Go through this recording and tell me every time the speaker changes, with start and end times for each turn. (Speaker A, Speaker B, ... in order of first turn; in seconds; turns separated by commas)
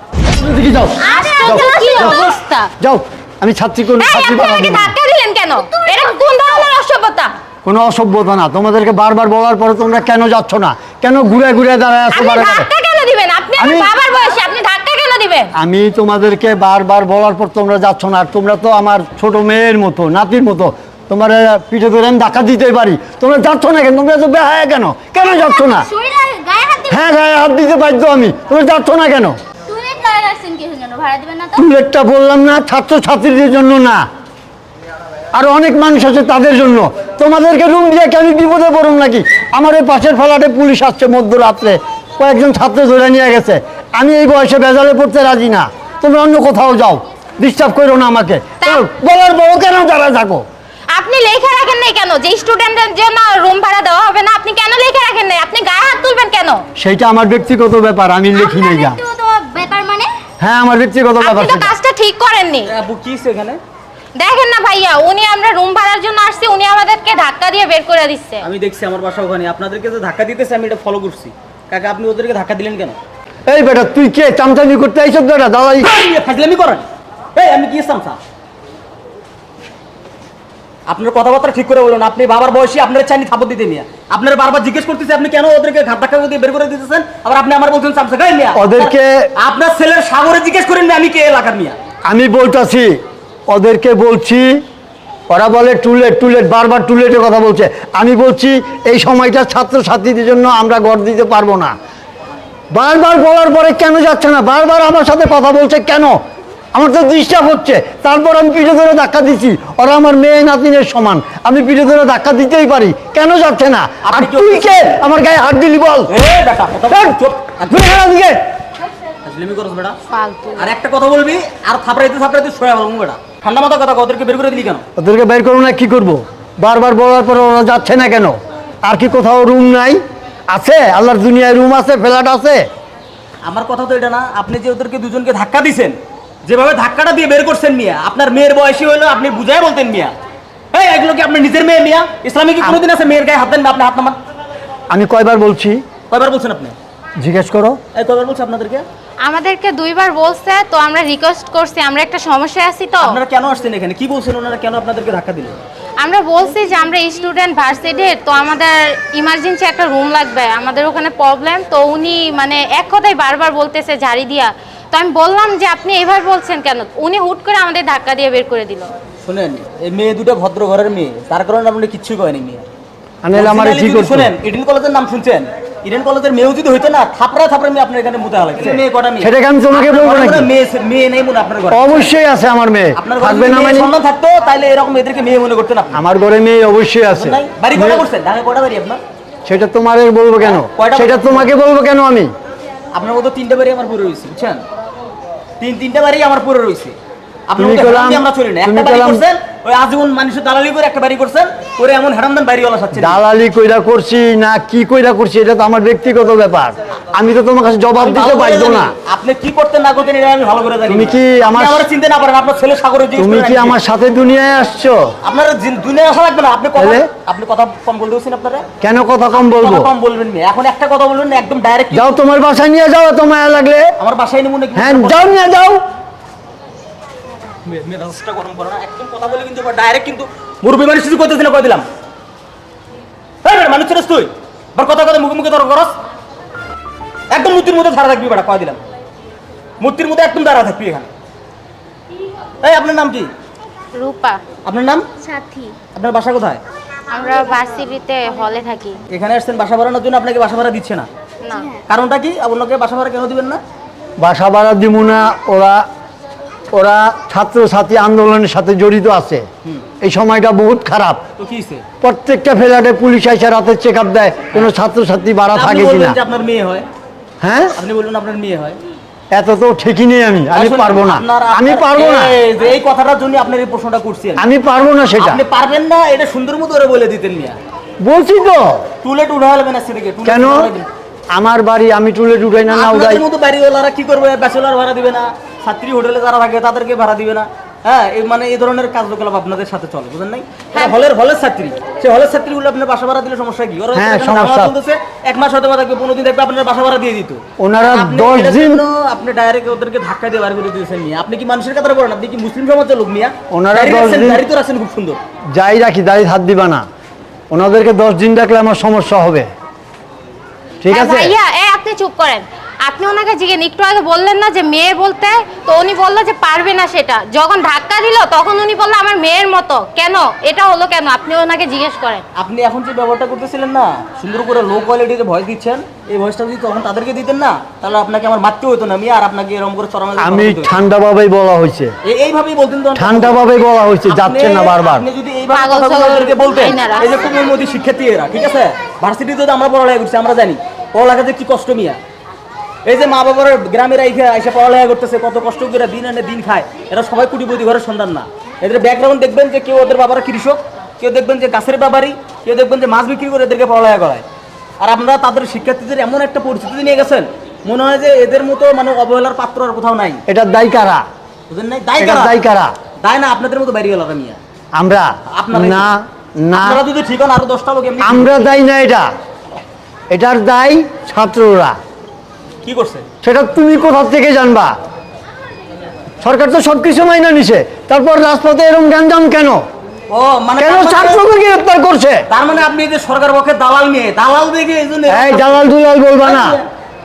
Speaker A: 0.3-2.2, Speaker B: 1.0-2.7, Speaker C: 1.0-2.4, Speaker A: 2.8-4.9, Speaker B: 4.0-7.3, Speaker C: 5.8-6.1, Speaker A: 7.6-12.7, Speaker B: 12.1-15.5, Speaker A: 13.6-13.9, Speaker A: 15.5-25.9, Speaker C: 25.2-27.2, Speaker A: 26.9-29.4, Speaker C: 29.7-31.6, Speaker A: 31.5-34.0, Speaker A: 35.3-50.4, Speaker B: 48.6-48.8, Speaker B: 50.9-56.6, Speaker A: 56.8-59.0, Speaker C: 58.4-60.1, Speaker A: 60.4-61.7, Speaker B: 61.2-62.7, Speaker D: 62.6-63.6, Speaker B: 64.2-68.4, Speaker D: 68.4-73.0, Speaker A: 73.5-75.9, Speaker D: 75.8-78.2, Speaker D: 80.9-91.8, Speaker A: 88.5-89.3, Speaker A: 92.1-94.6, Speaker A: 95.3-101.7, Speaker A: 102.7-106.2, Speaker A: 106.7-116.1, Speaker D: 114.0-115.0, Speaker D: 116.1-118.0, Speaker A: 116.9-118.4, Speaker D: 119.2-120.0, Speaker B: 120.1-120.7, Speaker D: 120.6-124.8, Speaker A: 125.0-132.7, Speaker D: 133.4-140.1, Speaker D: 140.7-144.2, Speaker A: 144.9-145.8, Speaker D: 146.1-146.8, Speaker A: 147.2-147.8, Speaker D: 147.9-148.8, Speaker B: 149.2-153.2, Speaker D: 153.0-155.6, Speaker B: 156.0-168.9, Speaker D: 169.2-172.7, Speaker A: 173.2-174.3, Speaker D: 173.3-182.1, Speaker A: 178.7-180.5, Speaker A: 181.7-183.9, Speaker D: 182.9-186.0, Speaker A: 185.9-188.0, Speaker D: 187.1-189.0, Speaker A: 189.4-192.3, Speaker D: 190.4-191.5, Speaker D: 192.9-194.6, Speaker D: 195.6-196.9, Speaker D: 197.5-203.2, Speaker A: 197.6-199.2, Speaker A: 202.9-208.9, Speaker D: 207.9-213.8, Speaker A: 210.9-211.9, Speaker A: 213.2-215.1, Speaker D: 215.2-218.7, Speaker A: 216.8-217.1, Speaker A: 218.8-219.9, Speaker D: 219.3-222.2, Speaker A: 221.9-223.9, Speaker D: 224.0-225.3, Speaker A: 224.7-225.8, Speaker D: 227.6-231.8, Speaker D: 233.4-236.0, Speaker D: 237.3-238.8, Speaker D: 239.8-241.1, Speaker D: 242.6-243.3, Speaker B: 243.9-244.4, Speaker D: 244.6-245.1, Speaker C: 245.2-245.7, Speaker D: 245.9-246.6, Speaker B: 247.1-249.0, Speaker D: 249.1-251.1, Speaker B: 251.4-251.7, Speaker D: 251.9-253.6, Speaker A: 254.2-255.8, Speaker A: 256.7-259.5, Speaker A: 260.0-261.2, Speaker D: 261.4-261.8, Speaker A: 262.0-266.2, Speaker D: 265.5-266.9, Speaker A: 267.4-267.7, Speaker D: 267.8-268.8, Speaker A: 269.3-272.3, Speaker D: 270.5-274.4, Speaker A: 274.4-275.4, Speaker D: 275.2-277.6, Speaker A: 278.0-278.8, Speaker D: 279.0-280.9, Speaker A: 280.2-280.7, Speaker A: 281.3-283.2, Speaker D: 282.6-305.2, Speaker A: 293.9-294.7, Speaker A: 297.6-298.8, Speaker A: 303.5-304.4, Speaker A: 305.5-306.9, Speaker A: 307.5-309.5, Speaker A: 310.8-311.3, Speaker B: 310.9-322.2, Speaker D: 322.3-330.8, Speaker A: 330.2-331.9, Speaker D: 332.0-333.4, Speaker A: 332.9-335.1, Speaker D: 334.0-342.0, Speaker B: 335.5-337.2, Speaker D: 342.9-354.2, Speaker D: 354.8-360.2, Speaker A: 360.3-361.0, Speaker D: 361.5-362.4, Speaker A: 362.0-362.7, Speaker D: 363.0-364.4, Speaker A: 364.7-366.8, Speaker D: 365.3-365.9, Speaker D: 366.5-368.4, Speaker A: 368.0-369.1, Speaker A: 370.1-371.8, Speaker D: 372.6-373.1, Speaker A: 373.2-374.7, Speaker A: 376.2-379.6, Speaker D: 380.1-381.2, Speaker A: 380.6-382.2, Speaker D: 382.3-385.6, Speaker A: 385.1-386.6, Speaker D: 386.2-386.7